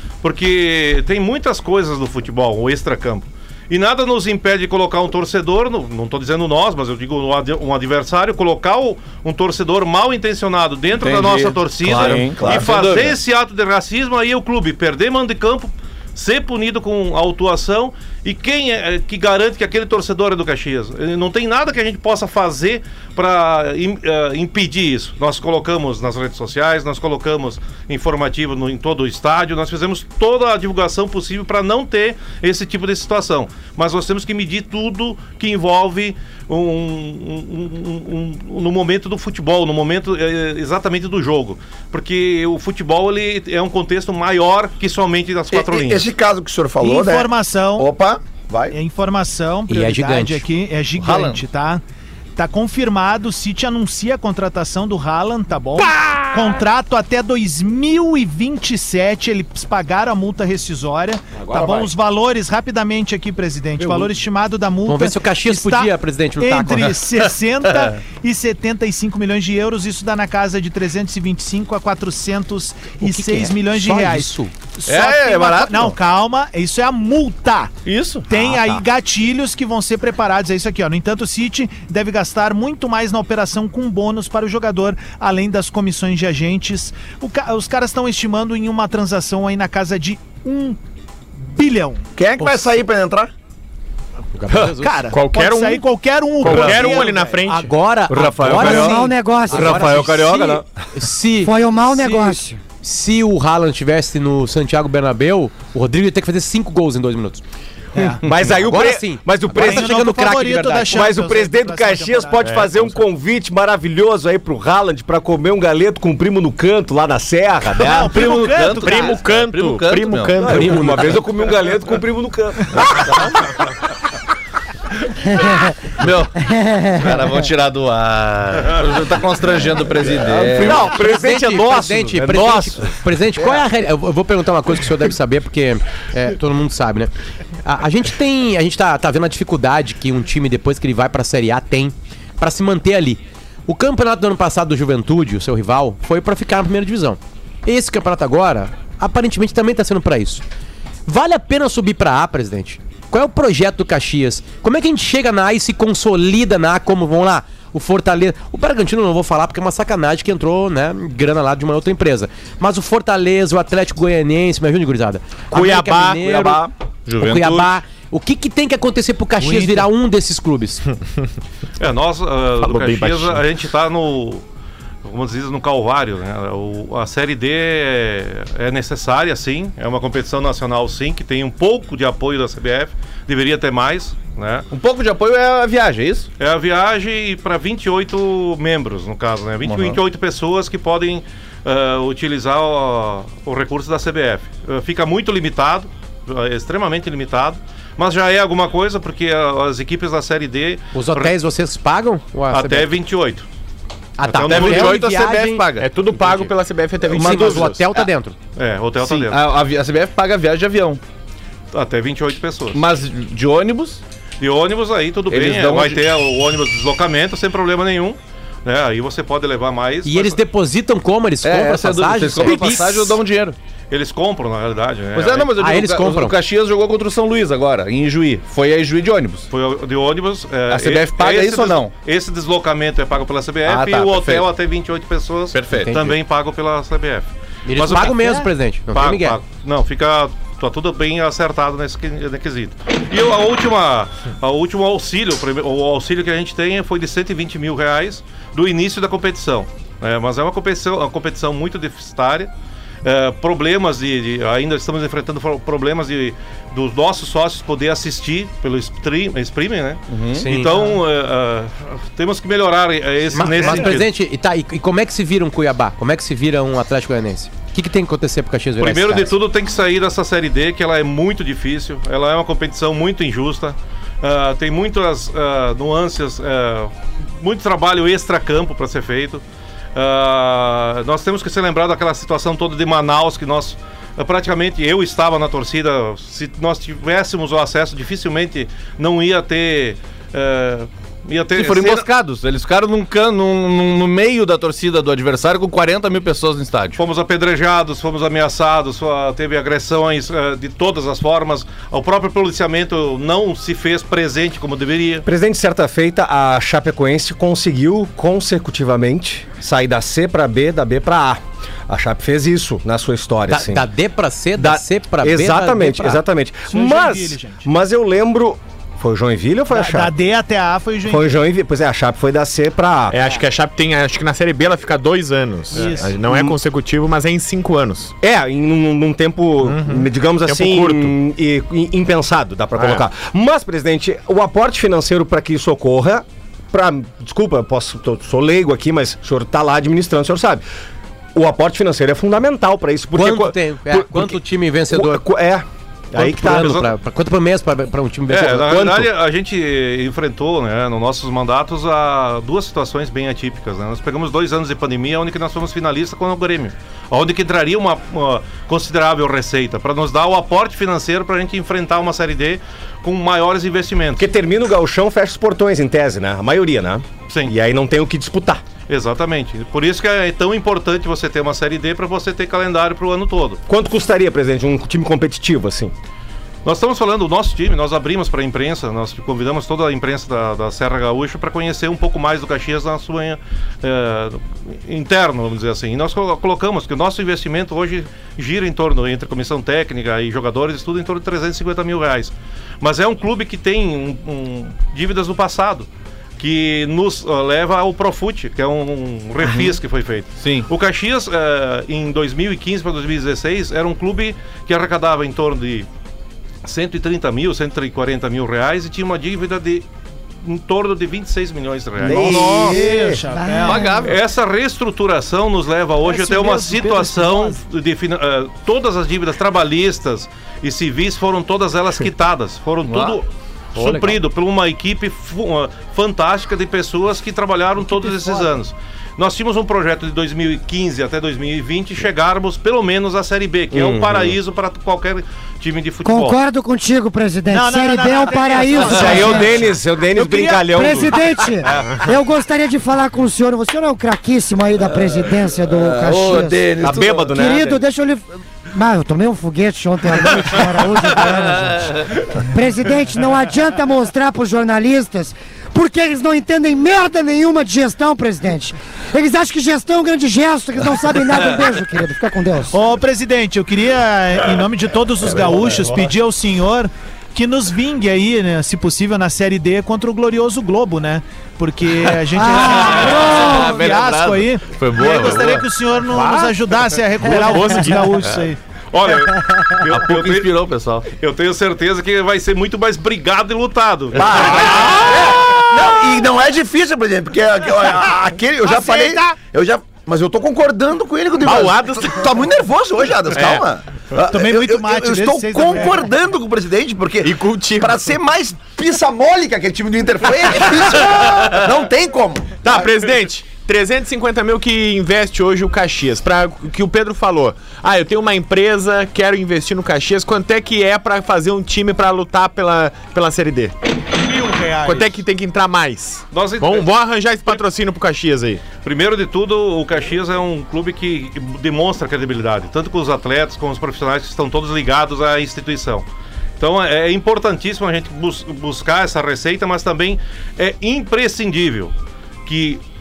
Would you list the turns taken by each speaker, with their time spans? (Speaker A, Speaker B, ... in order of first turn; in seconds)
Speaker A: 0.2-46.1, 171.8-174.4, 175.0-184.7, 186.4-201.3, 202.5-203.4, 204.2-204.9, 208.6-209.4, 211.7-212.8, 214.4-220.4, 222.4-222.8, 223.9-225.6, 229.5-252.5, 253.0-264.1, 268.8-279.4, 279.9-292.1, 296.9-305.2, 346.2-346.9, 348.3-364.3, 367.3-367.5, 368.9-373.6, 376.6-405.9, 406.6-409.9, 410.4-412.7, 414.0-436.4, 441.6-442.1, 478.9-480.5, 481.1-484.8, 516.3-516.9, 518.8-526.1, 526.6-531.9, 532.4-532.8
Speaker B: 11.0-13.2, 51.0-51.4, 74.8-76.0, 77.8-78.3, 98.1-98.9, 99.7-100.6, 118.1-120.7, 122.8-123.4, 126.0-126.4, 126.9-131.0, 165.5-167.8, 184.7-186.3, 189.6-190.0, 204.4-205.9, 207.1-208.0, 209.0-211.0, 212.7-214.0, 215.3-216.0, 221.4-223.6, 225.1-229.5, 230.7-231.9, 233.6-234.5, 235.5-236.1, 260.1-260.5, 291.5-297.0, 399.4-399.7, 400.4-400.7, 413.6-414.2, 422.8-423.2, 423.8-424.2, 472.8-475.7, 479.9-481.1
Speaker C: 11.9-12.7, 45.5-48.8, 61.5-61.9, 92.2-93.3, 444.9-447.3, 484.1-502.9
Speaker D: 46.8-47.9, 48.7-51.8, 52.4-77.7, 78.3-90.8, 91.4-92.0, 94.7-97.5, 107.9-108.3, 109.6-112.5, 117.8-119.2, 169.4-169.9, 316.7-317.7, 319.7-321.3, 325.7-326.2, 412.0-414.1, 416.0-417.6, 427.8-428.5, 437.5-441.1, 462.7-478.6, 488.7-489.2, 494.3-496.0, 514.2-515.1
Speaker E: 49.7-50.4, 63.8-64.1, 64.8-67.0, 73.0-74.5, 94.3-95.0, 97.5-107.4, 108.0-111.0, 120.5-121.0, 130.6-137.1, 137.6-150.4, 151.1-166.6, 167.2-170.9, 200.9-203.0, 204.2-206.5, 207.1-208.3, 220.0-223.2, 225.6-226.4, 235.7-236.2, 237.7-239.4, 260.4-261.0, 263.3-269.3, 313.5-316.2, 343.1-345.2, 346.1-349.1
Speaker F: 95.1-95.9, 96.4-97.7, 112.4-112.8, 118.8-121.2, 172.6-173.4, 205.8-207.9, 323.1-328.1, 329.6-331.1, 332.8-333.0, 476.1-476.6, 477.2-478.3, 491.4-492.4, 493.3-493.6, 497.2-498.1, 502.6-513.8, 514.8-518.6
Speaker G: 98.1-99.0, 99.6-100.6, 108.2-110.1, 110.9-118.3, 120.4-123.3, 130.1-132.9, 305.2-313.9, 314.6-320.1, 321.1-323.2, 325.8-326.6, 328.2-340.6, 341.3-344.4, 344.9-346.8, 364.2-368.6, 373.7-375.9, 412.0-413.2, 433.7-434.0, 438.9-441.8, 446.8-447.8
Speaker H: 98.5-100.0, 101.4-102.6, 126.4-127.2, 413.3-414.0, 436.0-439.6, 440.7-446.7, 447.3-462.8, 472.3-473.8